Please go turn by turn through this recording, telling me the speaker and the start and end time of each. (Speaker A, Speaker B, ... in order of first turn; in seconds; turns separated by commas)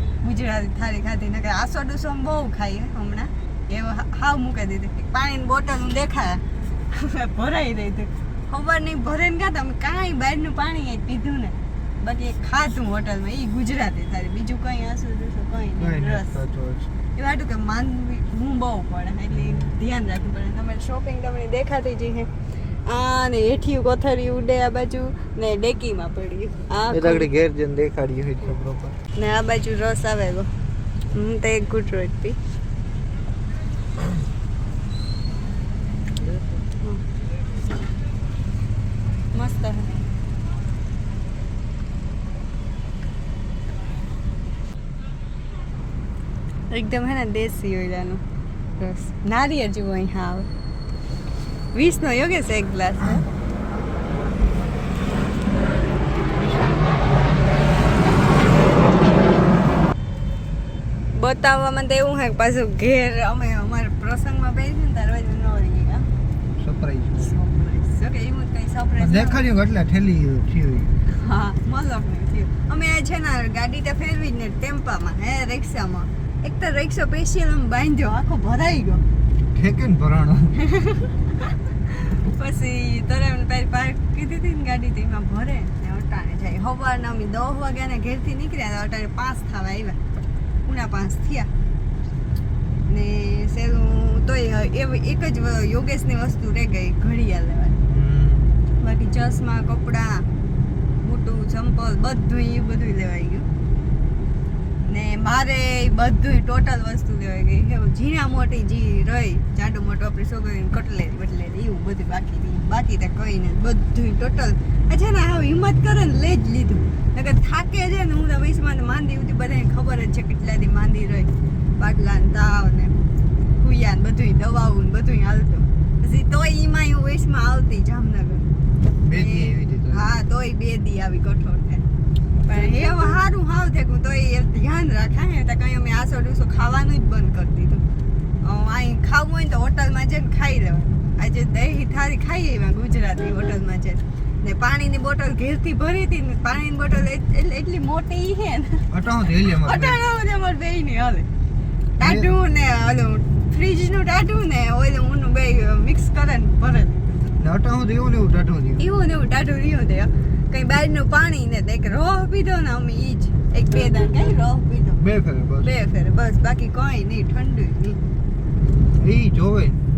Speaker A: 0.2-16.4, Speaker B: 15.8-16.9, Speaker A: 17.2-22.3, Speaker B: 19.3-19.8, Speaker A: 22.9-27.3, Speaker B: 26.9-29.0, Speaker A: 29.2-30.5, Speaker A: 31.1-32.4, Speaker A: 39.4-40.0, Speaker A: 46.7-48.2, Speaker A: 48.8-50.5, Speaker A: 51.7-53.3, Speaker A: 61.1-66.1, Speaker B: 66.6-67.3, Speaker A: 67.2-69.5, Speaker B: 69.0-70.9, Speaker A: 71.0-79.0, Speaker B: 79.4-80.6, Speaker A: 80.5-90.0, Speaker A: 90.7-91.5, Speaker A: 92.9-97.8, Speaker B: 97.8-98.5, Speaker A: 98.8-100.3, Speaker A: 101.0-103.5, Speaker A: 104.9-123.0, Speaker A: 123.6-128.5, Speaker B: 129.0-130.1, Speaker A: 129.1-131.8, Speaker A: 132.4-137.8, Speaker A: 138.4-151.3, Speaker B: 148.9-150.0, Speaker A: 152.0-157.3, Speaker B: 152.0-152.3, Speaker B: 157.4-158.8, Speaker A: 158.8-165.0, Speaker B: 165.0-165.7, Speaker A: 165.6-168.0, Speaker B: 169.0-169.8